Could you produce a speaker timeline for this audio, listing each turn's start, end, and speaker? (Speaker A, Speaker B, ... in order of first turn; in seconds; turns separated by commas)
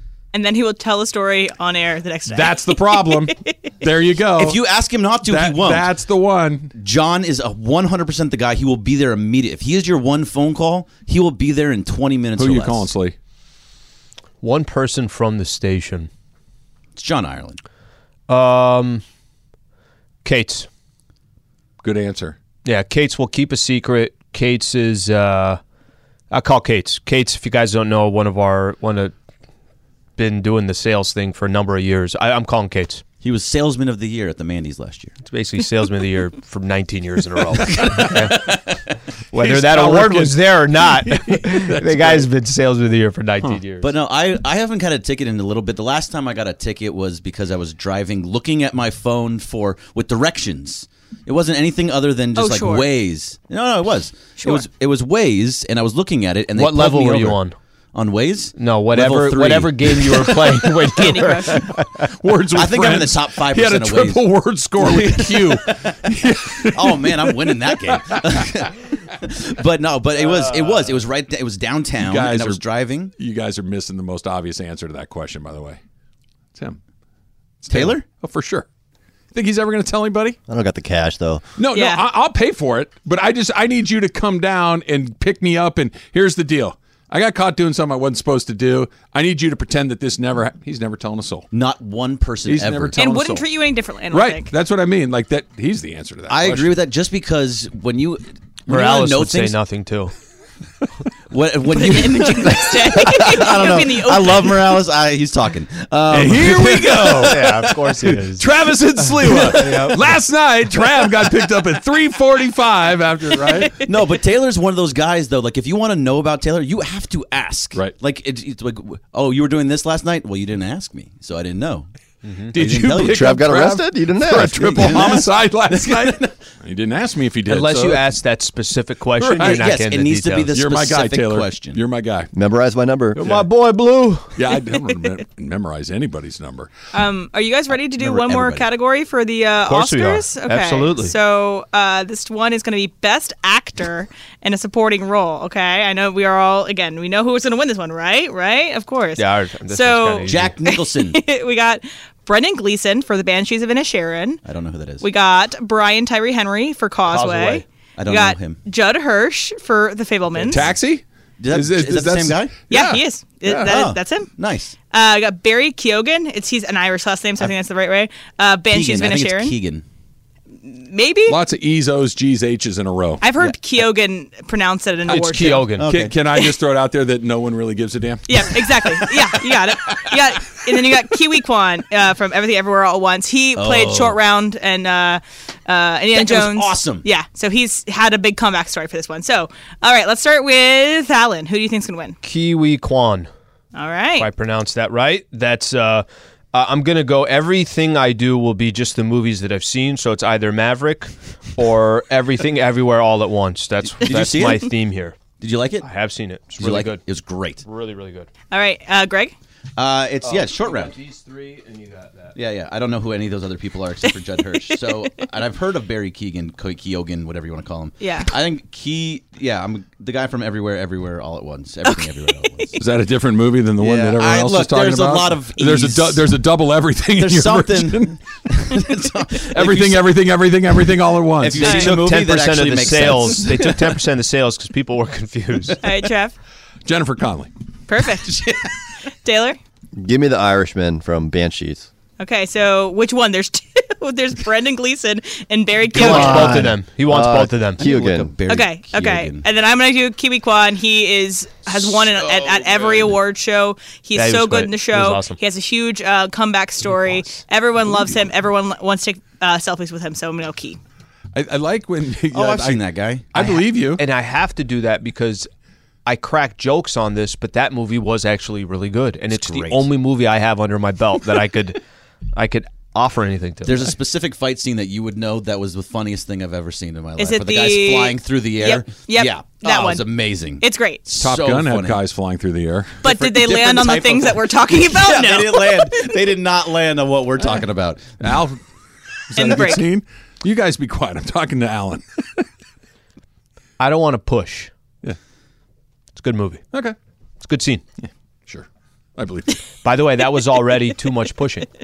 Speaker A: 0.3-3.5, Speaker B: 2.3-4.6, Speaker C: 4.4-5.9, Speaker B: 5.2-6.7, Speaker C: 6.8-12.9, Speaker B: 12.4-13.2, Speaker D: 14.4-16.1, Speaker C: 16.9-17.6, Speaker D: 18.3-19.0, Speaker D: 20.2-20.7, Speaker B: 21.8-22.4, Speaker D: 22.6-25.6, Speaker D: 26.3-29.1, Speaker D: 30.2-33.0, Speaker C: 33.2-35.1, Speaker D: 35.3-38.5, Speaker C: 37.5-38.8, Speaker D: 39.3-43.9, Speaker B: 39.3-42.3, Speaker C: 43.8-57.4, Speaker A: 52.4-52.9, Speaker A: 54.4-54.6, Speaker D: 56.5-57.5, Speaker C: 57.9-58.5, Speaker D: 58.6-61.7, Speaker B: 58.9-68.5, Speaker A: 61.0-61.6, Speaker C: 62.5-64.2, Speaker C: 64.8-73.1, Speaker D: 70.2-70.7, Speaker B: 72.0-72.6, Speaker B: 73.2-75.8, Speaker B: 76.5-76.8, Speaker B: 77.6-78.7, Speaker C: 77.7-78.0, Speaker B: 79.3-80.4, Speaker E: 80.5-81.5, Speaker B: 81.6-91.5, Speaker A: 81.7-82.0, Speaker C: 91.5-93.0, Speaker B: 92.4-93.4, Speaker A: 93.0-94.5, Speaker B: 94.1-96.8, Speaker C: 96.3-99.5, Speaker D: 98.7-100.1, Speaker C: 101.3-108.1, Speaker A: 101.8-104.7, Speaker B: 106.1-113.7, Speaker D: 107.2-108.5, Speaker D: 109.0-110.1, Speaker C: 109.5-109.9, Speaker A: 113.4-113.8, Speaker C: 113.8-121.9, Speaker D: 122.2-122.5, Speaker B: 122.5-128.0, Speaker C: 122.5-123.3, Speaker E: 123.0-125.2, Speaker C: 124.8-126.3, Speaker D: 127.5-130.5, Speaker B: 129.2-129.7, Speaker C: 129.4-131.8, Speaker B: 130.5-132.3, Speaker E: 132.3-133.2, Speaker B: 133.2-133.5, Speaker D: 133.2-134.4, Speaker B: 134.3-136.7, Speaker A: 136.9-154.4, Speaker C: 138.0-138.7, Speaker D: 139.7-141.1, Speaker D: 149.2-150.6, Speaker C: 150.2-151.2, Speaker C: 154.4-155.1, Speaker A: 155.0-160.6, Speaker D: 157.1-157.6, Speaker C: 158.0-158.6, Speaker B: 160.5-163.7, Speaker C: 161.4-162.6, Speaker A: 162.7-164.3, Speaker C: 163.5-164.8, Speaker A: 164.9-169.6, Speaker C: 168.7-169.8, Speaker A: 170.6-171.4, Speaker B: 171.3-173.2, Speaker A: 173.2-175.7, Speaker D: 175.1-175.9, Speaker C: 175.8-176.1, Speaker B: 175.8-178.5, Speaker A: 178.3-192.2, Speaker C: 183.5-184.2, Speaker C: 186.1-187.1, Speaker D: 192.2-193.3, Speaker A: 193.7-194.3, Speaker D: 194.2-205.2, Speaker C: 204.0-204.7, Speaker C: 205.4-205.8, Speaker D: 205.8-207.0, Speaker C: 206.6-207.6, Speaker D: 207.6-208.3, Speaker A: 208.5-209.3, Speaker C: 209.8-210.9, Speaker D: 210.2-212.3, Speaker C: 212.3-222.8, Speaker A: 218.0-218.3, Speaker A: 221.8-222.5, Speaker B: 222.8-228.2, Speaker C: 223.8-226.3, Speaker C: 227.2-230.1, Speaker B: 229.4-231.8, Speaker C: 231.4-233.9, Speaker A: 231.6-231.9, Speaker D: 231.6-235.8, Speaker A: 235.8-236.3, Speaker B: 236.8-237.5, Speaker A: 237.9-238.4, Speaker C: 238.3-238.6, Speaker A: 239.2-239.6, Speaker E: 240.0-241.9, Speaker A: 242.2-246.5, Speaker D: 245.9-247.8, Speaker C: 245.9-246.8, Speaker E: 246.4-248.4, Speaker C: 247.8-249.5, Speaker A: 248.4-260.8, Speaker C: 251.7-253.2, Speaker D: 254.2-255.4, Speaker B: 261.3-262.8, Speaker C: 262.3-263.3, Speaker B: 263.3-264.0, Speaker D: 263.4-265.5, Speaker D: 266.1-271.8, Speaker C: 269.3-269.9, Speaker D: 272.3-273.9, Speaker C: 273.6-282.0, Speaker A: 277.2-280.1, Speaker A: 280.6-281.0, Speaker B: 281.2-283.0, Speaker C: 283.0-288.3, Speaker A: 283.0-286.1, Speaker B: 288.2-288.6, Speaker B: 289.3-292.4, Speaker A: 289.4-289.8, Speaker D: 293.8-294.7, Speaker D: 296.1-296.6, Speaker D: 297.4-297.8, Speaker B: 298.0-299.6, Speaker D: 299.8-301.7